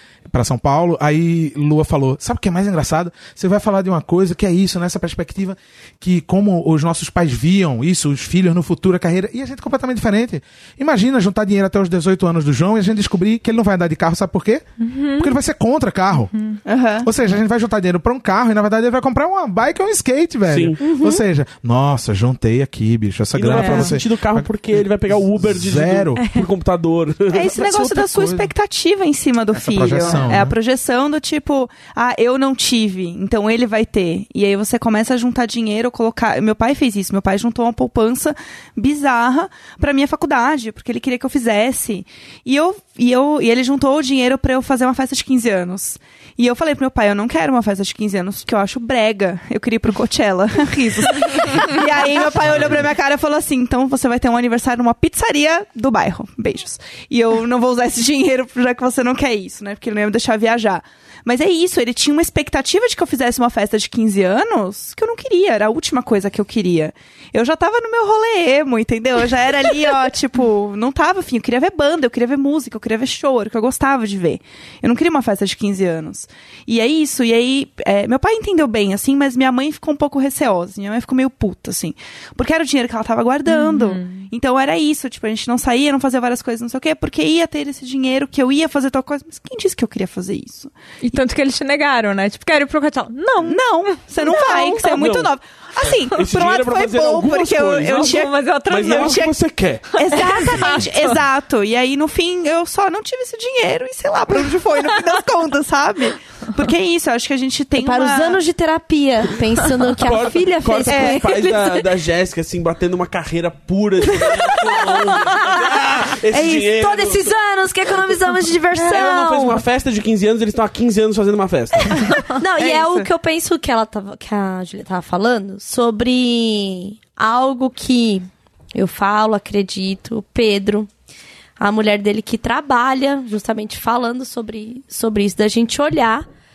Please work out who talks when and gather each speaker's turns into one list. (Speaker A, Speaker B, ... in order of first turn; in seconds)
Speaker A: 0.3-14.6, 15.1-16.3, 17.0-24.5, 25.1-26.2, 27.5-28.5, 29.6-30.5
Speaker B: 14.8-15.3, 23.6-23.9, 26.2-26.4, 83.5-84.3, 91.0-95.1, 97.9-99.3, 100.0-101.2, 104.8-105.1
Speaker C: 16.6-17.1, 27.3-91.2, 93.4-99.3, 99.9-108.4, 110.8-111.2, 122.5-123.1
Speaker D: 20.5-20.8, 23.3-27.5, 52.5-52.8, 95.0-95.3, 95.8-99.9, 109.9-117.4, 118.9-122.1
Speaker E: 20.8-21.2, 107.8-111.8, 115.0-119.6, 122.3-130.9, 131.6-136.2